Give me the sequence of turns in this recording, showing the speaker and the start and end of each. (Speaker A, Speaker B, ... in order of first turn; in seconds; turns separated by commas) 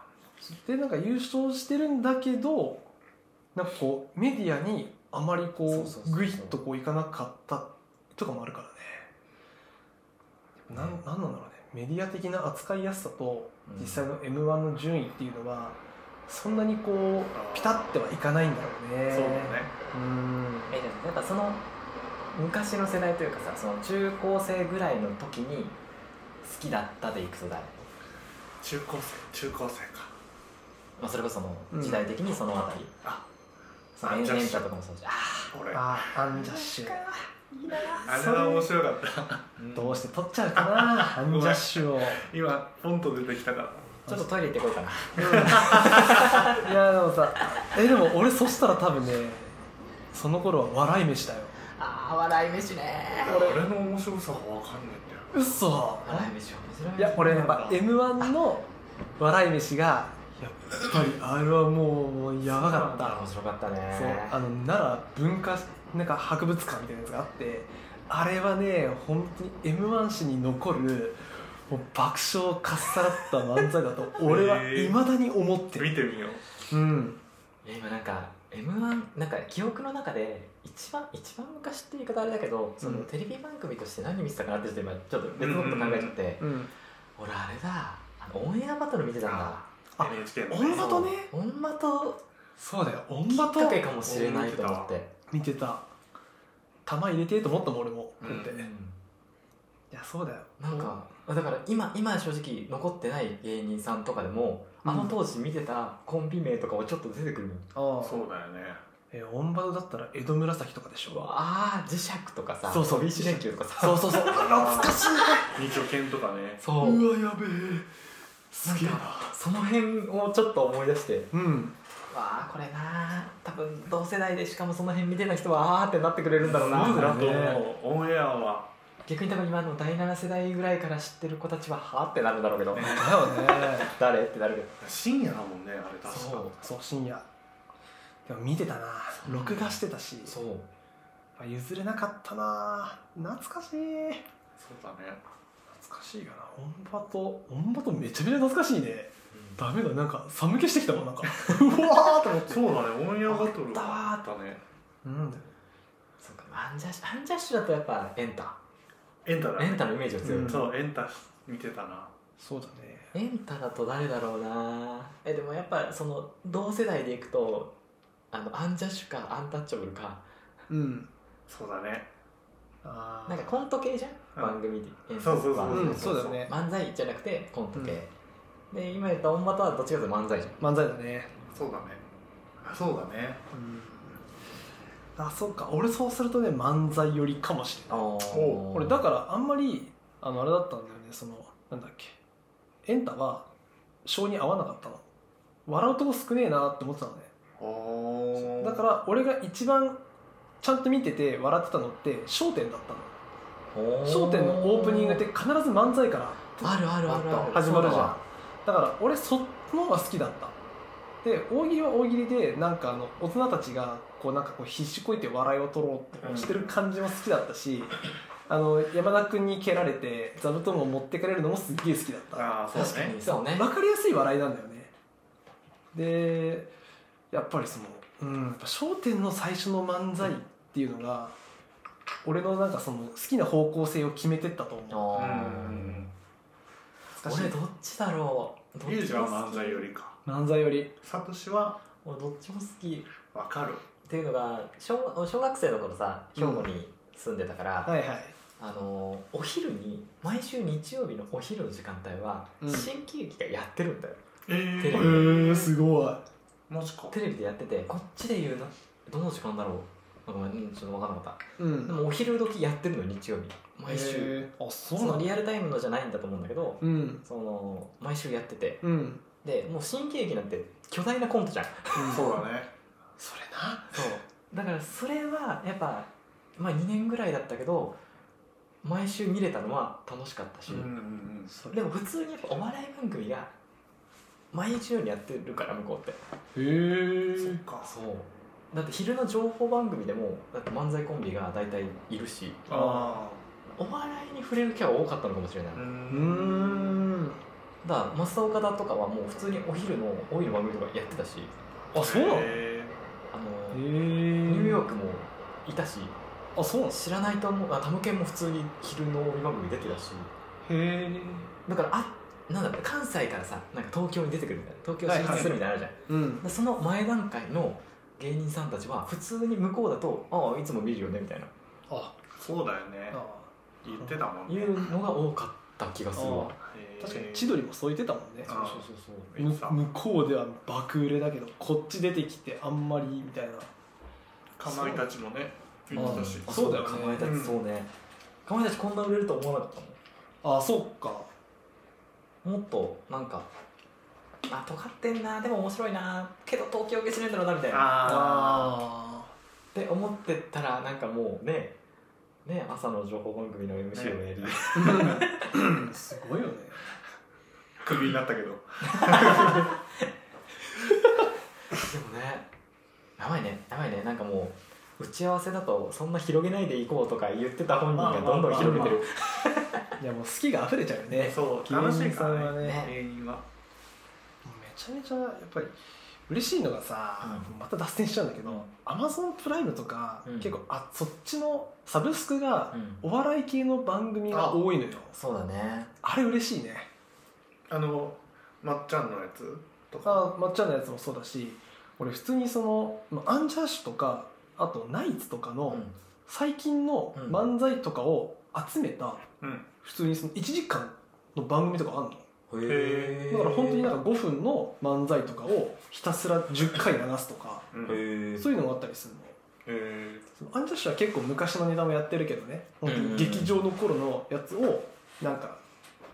Speaker A: 0.4-2.9, Speaker A: 3.5-9.1, Speaker B: 5.7-6.6, Speaker A: 10.7-20.7, Speaker B: 10.7-11.0, Speaker B: 13.7-14.1, Speaker C: 17.3-17.9, Speaker C: 19.1-19.8, Speaker B: 20.7-21.7, Speaker B: 22.3-25.8, Speaker B: 26.4-27.8, Speaker C: 28.6-30.1, Speaker B: 31.0-32.9, Speaker A: 31.7-32.1, Speaker B: 34.0-35.5, Speaker C: 34.0-34.7, Speaker C: 35.5-36.0, Speaker A: 35.7-37.1, Speaker B: 36.3-38.5, Speaker C: 38.0-39.5, Speaker A: 38.2-38.7, Speaker B: 39.6-40.1, Speaker A: 39.7-42.3, Speaker C: 40.6-44.0, Speaker A: 44.0-44.3, Speaker B: 44.1-46.7, Speaker A: 45.1-49.5, Speaker C: 45.2-46.1, Speaker A: 50.1-51.6, Speaker B: 51.6-53.5, Speaker C: 53.2-55.3, Speaker A: 53.3-53.6, Speaker A: 55.3-56.4, Speaker B: 56.0-58.3, Speaker A: 57.0-63.2, Speaker C: 57.3-57.8, Speaker C: 62.5-63.2, Speaker B: 63.0-64.4, Speaker A: 63.9-76.0, Speaker C: 74.2-75.0, Speaker C: 75.7-76.5, Speaker A: 76.6-77.2, Speaker B: 77.6-86.5, Speaker A: 82.8-83.1, Speaker C: 85.3-86.2, Speaker A: 86.4-86.7, Speaker B: 87.2-89.7, Speaker C: 89.2-91.0, Speaker A: 90.0-91.3, Speaker B: 90.7-92.2, Speaker A: 92.6-94.4, Speaker B: 93.3-95.1, Speaker C: 94.0-94.9, Speaker A: 95.3-95.9, Speaker A: 96.8-98.7, Speaker C: 98.2-98.5, Speaker B: 98.5-99.0, Speaker A: 99.9-101.0, Speaker B: 100.6-107.7, Speaker A: 104.8-105.2, Speaker A: 107.7-108.2, Speaker C: 108.0-108.8, Speaker A: 109.1-111.3, Speaker B: 111.1-114.5, Speaker A: 112.7-115.9, Speaker C: 114.3-115.0, Speaker C: 115.5-116.6, Speaker B: 116.6-117.1, Speaker A: 116.8-117.9, Speaker A: 118.5-119.3, Speaker B: 118.6-121.3, Speaker A: 121.3-121.8, Speaker B: 122.1-127.7, Speaker C: 126.4-128.7, Speaker A: 126.5-127.6, Speaker B: 129.0-134.8, Speaker C: 132.7-133.2, Speaker A: 132.8-133.9, Speaker C: 134.8-136.5, Speaker B: 136.0-136.6, Speaker A: 136.5-137.3, Speaker A: 138.2-140.4, Speaker B: 139.2-140.7, Speaker A: 141.4-144.2, Speaker C: 144.6-145.2, Speaker A: 145.7-154.2, Speaker B: 149.3-149.6, Speaker C: 152.4-154.6, Speaker A: 155.0-155.5, Speaker B: 156.2-158.6, Speaker C: 159.2-162.1, Speaker B: 159.6-160.6, Speaker A: 160.2-160.7, Speaker A: 162.4-163.1, Speaker B: 163.1-167.7, Speaker B: 168.3-170.2, Speaker A: 170.7-171.1, Speaker C: 171.5-172.1, Speaker A: 172.8-173.5, Speaker B: 173.3-178.1, Speaker C: 174.3-174.6, Speaker C: 175.2-176.3, Speaker A: 175.7-176.5, Speaker A: 177.7-178.0, Speaker B: 178.7-180.6, Speaker A: 180.6-181.3, Speaker C: 181.5-182.0, Speaker C: 182.6-183.4, Speaker A: 183.5-184.2, Speaker A: 185.2-192.2, Speaker B: 187.9-189.0, Speaker C: 188.2-188.6, Speaker A: 192.8-193.5, Speaker A: 194.0-195.0, Speaker A: 195.7-197.3, Speaker C: 197.6-198.9, Speaker A: 198.3-200.0, Speaker A: 200.6-203.2, Speaker B: 203.7-205.2, Speaker A: 204.0-210.6, Speaker B: 206.6-208.2, Speaker A: 211.2-224.9, Speaker C: 216.2-216.8, Speaker B: 216.2-216.5, Speaker C: 222.3-223.2, Speaker B: 222.7-223.7, Speaker A: 225.9-226.7, Speaker A: 227.3-231.4, Speaker A: 232.2-235.2, Speaker B: 234.9-236.1, Speaker C: 235.1-236.1, Speaker B: 237.1-239.8, Speaker A: 237.2-237.6, Speaker C: 238.8-240.2, Speaker A: 240.2-240.9, Speaker C: 241.0-241.8, Speaker B: 242.0-243.2, Speaker C: 243.3-243.8, Speaker B: 244.0-247.9, Speaker A: 246.3-246.7, Speaker A: 247.8-248.3, Speaker B: 248.6-254.2, Speaker A: 252.6-252.9, Speaker C: 254.5-255.7, Speaker B: 254.8-255.3, Speaker A: 254.9-256.2, Speaker C: 256.7-257.1, Speaker B: 257.1-264.4, Speaker A: 261.6-262.0, Speaker A: 263.9-265.4, Speaker B: 264.9-268.8, Speaker A: 266.8-267.2, Speaker A: 268.8-269.2, Speaker B: 269.4-272.4, Speaker A: 271.9-272.3, Speaker C: 272.1-272.7, Speaker A: 273.2-274.2, Speaker B: 273.9-278.0, Speaker B: 278.8-280.9, Speaker C: 280.7-281.5, Speaker A: 281.4-281.9, Speaker B: 281.7-283.5, Speaker B: 284.5-286.2, Speaker A: 286.5-287.6, Speaker C: 287.4-287.9, Speaker B: 287.8-292.8, Speaker C: 292.7-293.4, Speaker A: 292.7-293.2, Speaker B: 293.7-295.9, Speaker C: 295.7-297.0, Speaker A: 296.1-297.4, Speaker B: 297.8-301.5, Speaker A: 301.9-302.6, Speaker C: 301.9-302.9, Speaker B: 303.3-306.1, Speaker A: 303.7-304.9, Speaker A: 306.6-307.0, Speaker B: 306.9-310.3, Speaker A: 310.6-311.5, Speaker B: 311.6-321.5, Speaker A: 315.0-315.6, Speaker A: 316.1-316.4, Speaker A: 321.9-322.2, Speaker C: 322.4-323.2, Speaker A: 323.1-324.3, Speaker C: 323.8-324.9, Speaker B: 324.4-326.5, Speaker A: 326.1-328.6, Speaker C: 326.6-327.6, Speaker B: 328.4-329.3, Speaker C: 328.4-329.8, Speaker A: 329.4-333.7, Speaker C: 334.6-336.5, Speaker A: 334.6-335.1, Speaker B: 335.9-337.9, Speaker A: 336.0-337.3, Speaker C: 337.2-337.6, Speaker B: 338.4-340.0, Speaker A: 340.4-341.3, Speaker B: 342.4-343.5, Speaker B: 344.5-348.1, Speaker C: 347.7-348.8, Speaker A: 348.0-349.3, Speaker B: 349.7-351.8, Speaker B: 352.4-355.7, Speaker C: 353.9-354.2, Speaker A: 354.7-356.8, Speaker C: 357.8-359.7, Speaker B: 358.9-359.8, Speaker B: 361.7-362.5, Speaker B: 363.2-369.9, Speaker C: 367.9-369.1, Speaker A: 368.5-368.9, Speaker A: 370.0-372.8, Speaker C: 371.1-373.4, Speaker B: 372.6-372.9, Speaker A: 374.4-375.7, Speaker A: 376.3-385.2, Speaker B: 377.2-377.5, Speaker B: 378.4-378.7, Speaker B: 380.2-380.6, Speaker B: 382.7-383.0, Speaker C: 384.3-384.6, Speaker B: 385.1-385.9, Speaker A: 386.0-386.9, Speaker C: 387.7-390.3, Speaker A: 390.0-402.3, Speaker B: 395.7-396.0, Speaker B: 397.1-397.5, Speaker C: 399.4-399.7, Speaker B: 402.5-403.9, Speaker C: 402.6-403.2, Speaker A: 403.2-407.8, Speaker C: 407.7-408.0, Speaker B: 407.8-408.5, Speaker A: 408.3-409.4, Speaker C: 409.6-410.3, Speaker A: 410.3-415.6, Speaker B: 412.8-413.6